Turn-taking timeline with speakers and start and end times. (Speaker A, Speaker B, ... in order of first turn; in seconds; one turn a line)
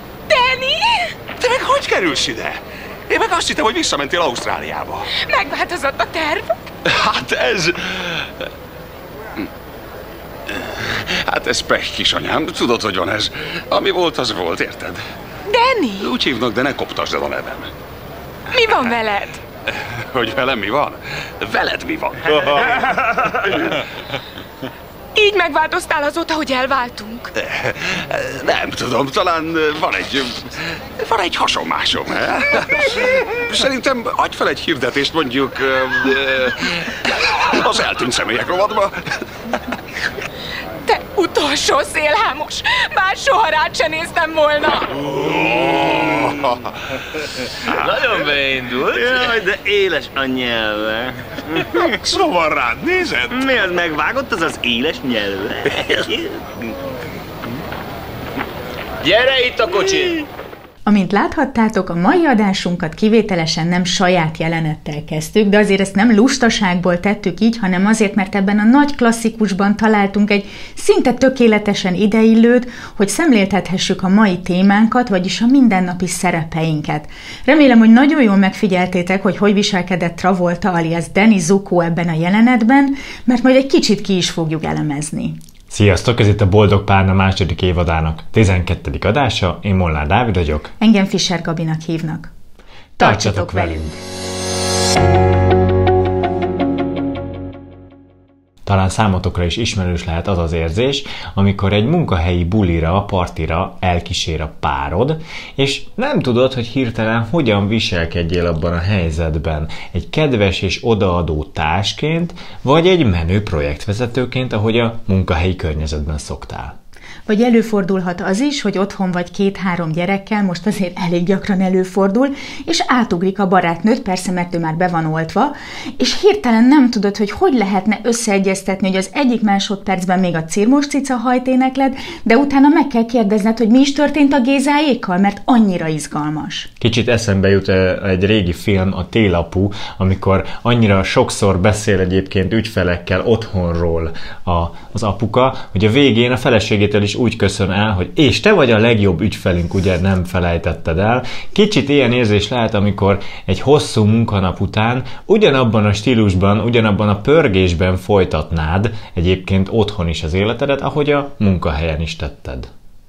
Speaker A: 0.3-1.2
Speaker B: 1.4-5.1
Speaker A: 5.1-6.6
Speaker B: 6.8-8.2
Speaker B: 10.8-15.0
Speaker A: 15.5-16.1
Speaker B: 15.9-17.7
Speaker A: 18.5-19.4
Speaker B: 20.0-23.8
Speaker A: 25.1-27.3
Speaker B: 27.5-30.4
Speaker B: 31.0-38.9
Speaker A: 40.9-45.0
Speaker B: 45.1-46.6
Speaker B: 47.6-48.3
Speaker C: 47.8-51.9
Speaker B: 49.0-49.2
Speaker B: 51.9-53.4
Speaker C: 53.3-56.4
Speaker C: 59.0-60.2
Speaker D: 60.8-85.4
Speaker E: 85.7-90.7
Speaker D: 90.8-92.3
Speaker D: 93.0-93.9
Speaker E: 93.0-94.0
Speaker E: 98.7-116.7
Speaker D: 117.3-136.7
Speaker E: 136.8-162.7